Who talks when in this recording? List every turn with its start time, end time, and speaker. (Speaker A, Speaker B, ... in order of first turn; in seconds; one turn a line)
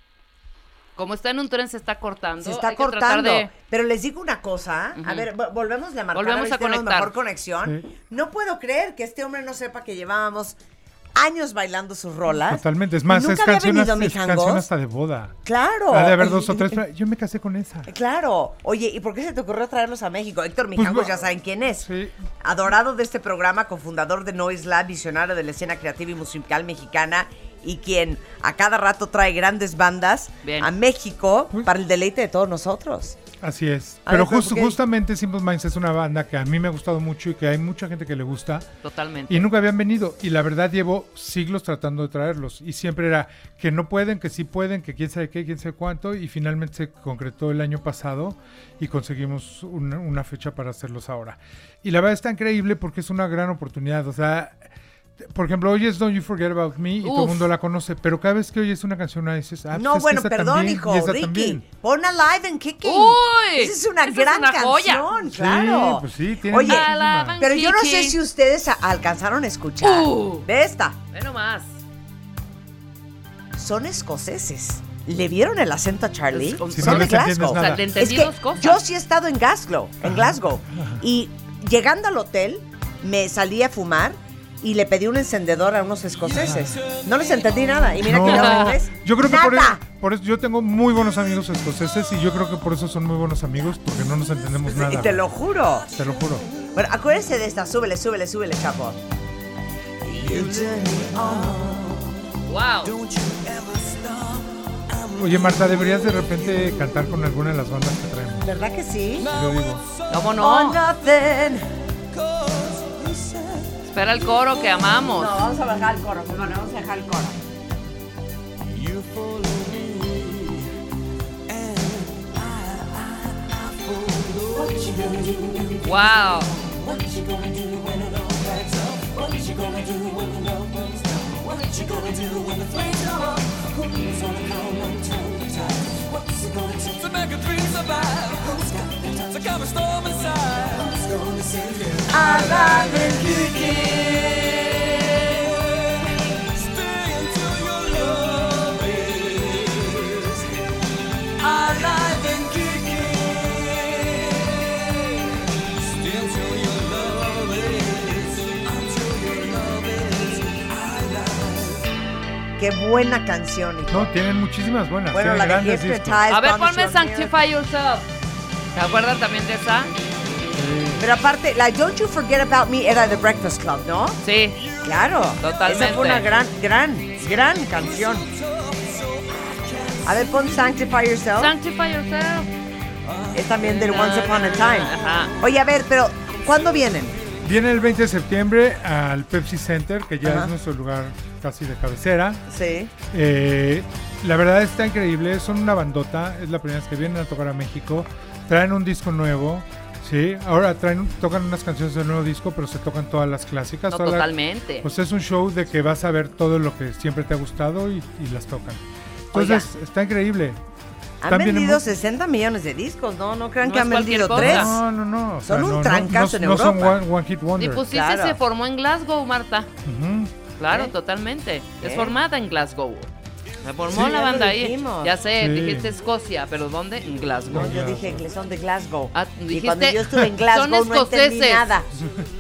Speaker A: 1.0-3.5
Speaker B: 2.4-10.6
Speaker A: 5.0-5.3
Speaker A: 6.1-7.2
Speaker B: 11.2-14.7
Speaker C: 12.5-15.3
Speaker B: 15.4-16.8
Speaker C: 15.9-17.9
Speaker B: 17.9-21.9
Speaker C: 20.8-21.2
Speaker C: 21.8-22.1
Speaker B: 22.4-33.2
Speaker A: 30.4-30.7
Speaker C: 33.4-38.7
Speaker B: 34.0-34.8
Speaker A: 38.8-39.5
Speaker C: 39.3-54.6
Speaker C: 55.2-61.6
Speaker A: 57.0-57.5
Speaker B: 59.7-71.0
Speaker A: 62.8-65.1
Speaker C: 65.2-67.4
Speaker A: 66.7-68.2
Speaker A: 69.8-70.5
Speaker A: 71.1-71.7
Speaker B: 73.6-89.8
Speaker A: 76.3-78.8
Speaker C: 76.7-77.9
Speaker C: 80.0-81.0
Speaker C: 86.3-86.8
Speaker C: 88.0-95.3
Speaker A: 88.3-88.7
Speaker B: 94.7-95.9
Speaker C: 95.9-96.5
Speaker B: 96.7-99.0
Speaker B: 100.0-102.1
Speaker A: 102.4-103.0
Speaker C: 105.1-108.5
Speaker B: 108.4-109.3
Speaker C: 109.3-109.9
Speaker A: 110.1-110.8
Speaker B: 110.4-111.7
Speaker A: 113.9-115.4
Speaker B: 115.1-117.4
Speaker B: 124.4-125.0
Speaker A: 125.8-126.6
Speaker B: 132.2-133.1
Speaker A: 137.5-137.8
Speaker B: 142.0-143.9
Speaker A: 142.4-143.1
Speaker A: 143.6-144.8
Speaker B: 162.6-164.1
Speaker C: 163.9-166.2
Speaker B: 165.1-167.3
Speaker A: 166.3-168.1
Speaker A: 168.8-169.9
Speaker C: 170.6-171.1
Speaker B: 171.0-174.2
Speaker A: 174.2-174.6
Speaker B: 174.8-178.3
Speaker A: 175.4-176.3
Speaker B: 180.0-181.5
Speaker A: 181.4-182.5
Speaker B: 183.3-187.2
Speaker A: 183.6-185.4
Speaker C: 187.4-192.4
Speaker B: 190.2-190.5
Speaker B: 192.5-192.9
Speaker C: 193.1-204.3
Speaker A: 203.9-204.9
Speaker C: 204.8-210.6
Speaker B: 209.3-209.7
Speaker B: 211.2-214.8
Speaker C: 211.3-211.9
Speaker A: 213.6-214.8
Speaker C: 214.3-217.8
Speaker B: 215.4-217.0
Speaker A: 217.6-219.7
Speaker B: 217.9-218.4
Speaker C: 219.8-220.3
Speaker A: 220.6-223.1
Speaker B: 221.8-222.2
Speaker A: 223.6-227.7
Speaker B: 223.8-225.1
Speaker C: 225.4-226.0
Speaker B: 227.5-231.9
Speaker C: 227.5-228.2
Speaker A: 229.1-231.7
Speaker C: 231.9-232.3